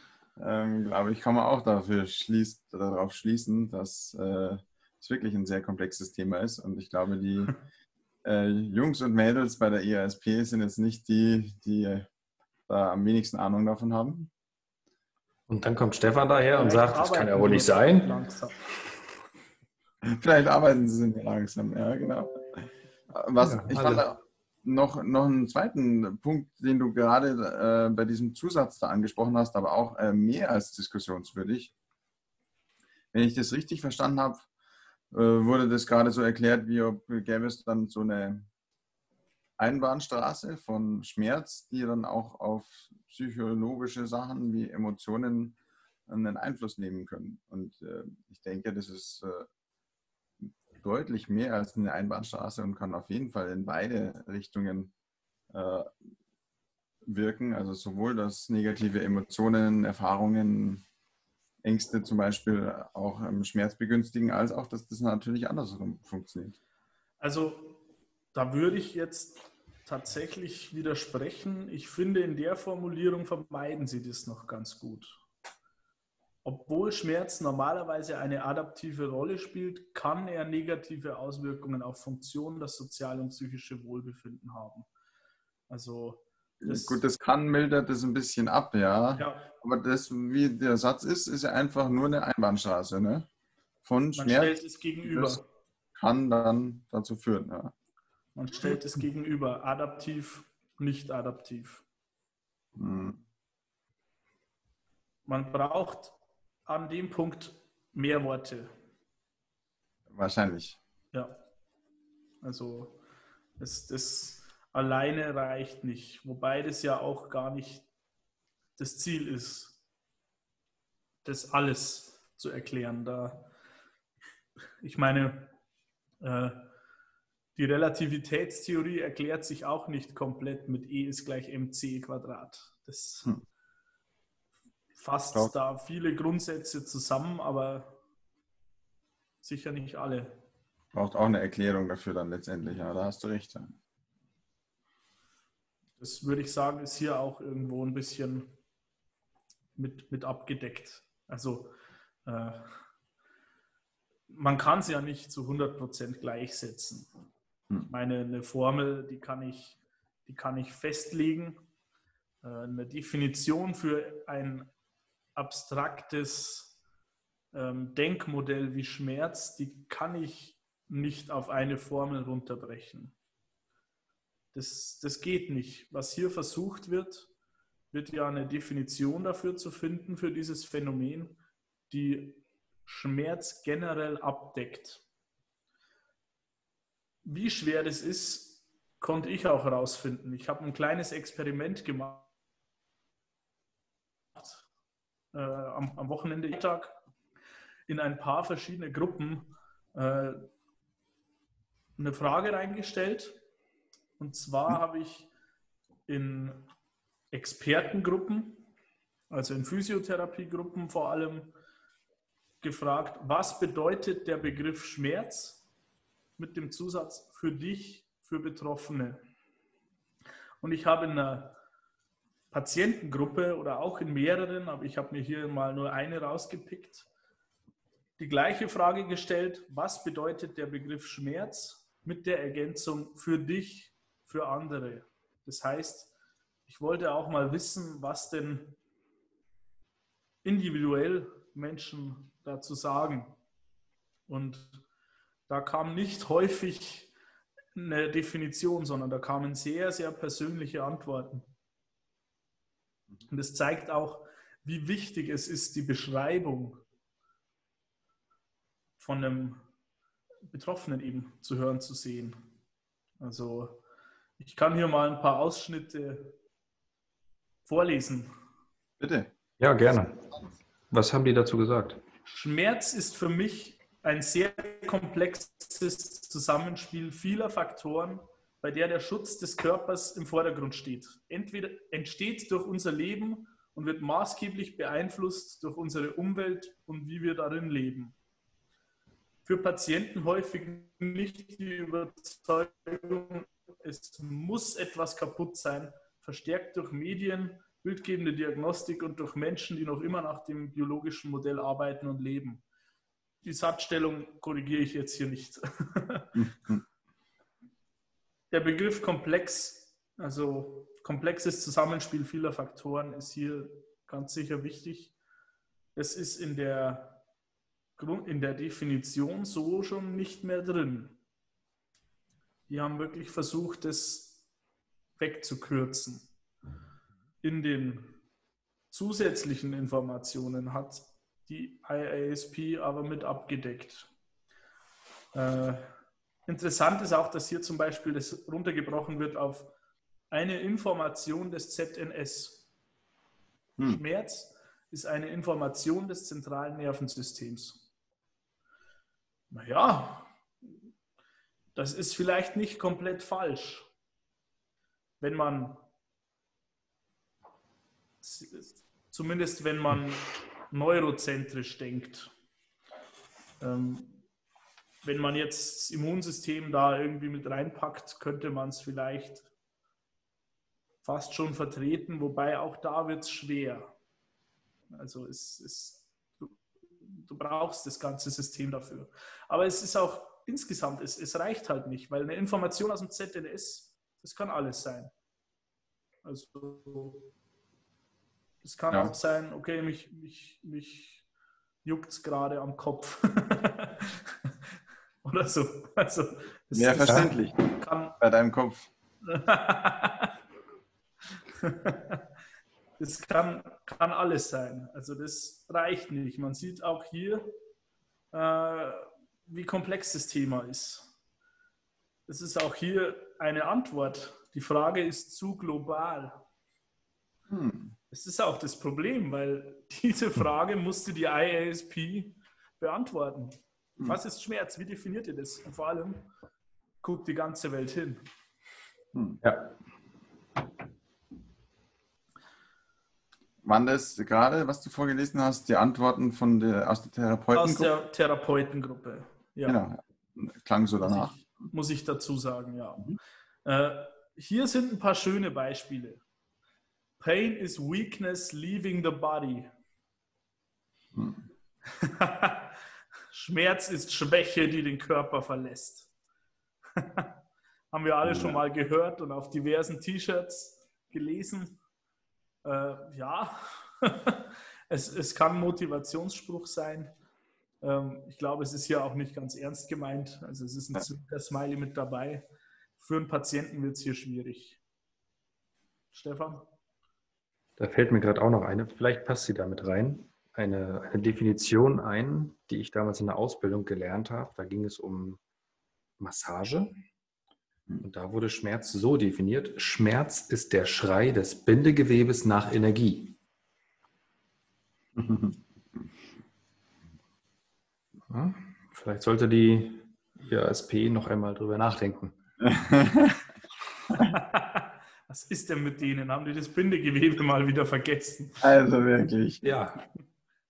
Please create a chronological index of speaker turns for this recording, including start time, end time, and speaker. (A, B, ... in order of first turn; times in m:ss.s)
0:00.4-0:07.6 A
0:08.2-0:12.1 A
0:12.7-0:14.3 A
0:15.5-0:18.1 B
0:16.5-0:18.6 C
0:20.0-0:31.7 A
0:23.4-0:24.1 B
0:33.1-0:34.4 A
0:35.1-0:38.5 A
0:39.6-0:45.6 A
0:46.1-0:49.5 A
0:50.8-0:54.9 A
0:55.5-0:55.9 A
0:57.0-1:00.8 A
1:01.6-1:06.6 A
1:07.2-1:07.8 C
1:08.3-1:15.2 C
1:16.4-1:24.9 C
1:25.7-1:27.0 C
1:26.6-1:33.3 A
1:29.2-1:29.5 C
1:33.8-1:35.4 A
1:34.2-1:35.4 C
1:36.0-1:37.7 A
1:38.4-1:41.8 C
1:42.8-1:43.2 A
1:45.3-1:48.7 C
1:50.1-1:50.8 A
1:52.4-1:53.0 C
1:53.6-1:57.9 C
1:58.8-1:59.8 C
2:01.2-2:03.5 C
2:04.8-2:05.5 C
2:06.2-2:06.7 C
2:07.6-2:13.3 C
2:15.0-2:18.0 C
2:19.4-2:20.4 C
2:20.9-2:23.7 A
2:26.0-2:28.6 C
2:29.8-2:31.7 C
2:32.2-2:32.7 C
2:34.3-2:37.1 C
2:37.9-2:41.6 C
2:42.4-2:44.7 C
2:45.4-2:46.8 C
2:47.5-2:53.1 C
2:54.5-2:57.3 C
2:57.9-3:01.4 C
3:01.9-3:05.0 C
3:07.2-3:12.3 C
3:14.3-3:14.6 C
3:15.3-3:17.0 C
3:17.9-3:20.5 C
3:22.0-3:23.4 C
3:24.2-3:25.3 C
3:26.1-3:26.7 C
3:27.3-3:28.7 C
3:29.3-3:31.5 C
3:32.6-3:35.6 C
3:36.4-3:39.2 C
3:40.6-3:41.6 C
3:42.5-3:47.1 C
3:48.2-3:56.1 C
3:56.7-3:58.8 C
4:00.4-4:03.4 C
4:04.3-4:04.8 C
4:05.5-4:07.1 C
4:07.7-4:11.5 C
4:13.3-4:16.8 C
4:19.0-4:19.6 C
4:20.5-4:22.5 C
4:23.2-4:23.8 C
4:24.4-4:26.4 C
4:27.6-4:28.3 C
4:29.0-4:29.3 A
4:29.6-4:30.3 B
4:30.9-4:32.0 B
4:32.2-4:48.2 C
4:49.4-5:02.6 C
5:03.4-5:06.5 C
5:06.4-5:06.7 A
5:08.5-5:15.1 C
5:15.9-5:17.2 C
5:18.0-5:21.2 C
5:22.7-5:24.4 C
5:25.2-5:26.3 C
5:27.4-5:28.2 C
5:28.9-5:34.1 C
5:35.3-5:35.9 C
5:36.5-5:39.7 C
5:40.3-5:42.7 C
5:43.8-5:47.9 C
5:49.5-5:50.3 C
5:51.7-5:53.9 C
5:55.2-5:55.8 C
5:58.2-6:02.3 C
6:03.6-6:04.2 C
6:05.0-6:09.5 C
6:11.0-6:13.9 C
6:14.9-6:25.1 C
6:26.2-6:27.3 C
6:28.6-6:31.2 C
6:31.8-6:34.5 C
6:35.2-6:38.2 C
6:36.7-6:38.9 A
6:37.0-6:37.3 B
6:39.2-6:40.3 C
6:41.6-6:42.2 C
6:43.0-6:47.5 C
6:48.3-6:51.1 C
6:52.3-6:56.4 C
6:57.5-6:57.9 A
6:58.1-7:06.3 C
7:07.0-7:08.2 C
7:09.1-7:09.4 A
7:09.4-7:09.7 B
7:13.6-7:17.9 A
7:17.5-7:19.8 C
7:19.6-7:21.5 A
7:21.0-7:26.2 C
7:27.2-7:29.7 C
7:31.1-7:31.4 A
7:31.9-7:32.8 C
7:33.3-7:36.1 C
7:37.0-7:37.3 C
7:37.9-7:41.8 C
7:38.2-7:38.6 A
7:42.6-7:47.1 C
7:47.8-7:52.4 C
7:53.0-7:54.8 C
7:56.1-7:56.7 C
7:57.8-8:05.4 B
8:06.2-8:06.9 B
8:08.0-8:13.4 B
8:15.1-8:15.6 A
8:18.3-8:22.4 B
8:22.6-8:23.4 A
8:24.2-8:28.6 C
8:28.6-8:29.6 A
8:29.6-8:30.0 B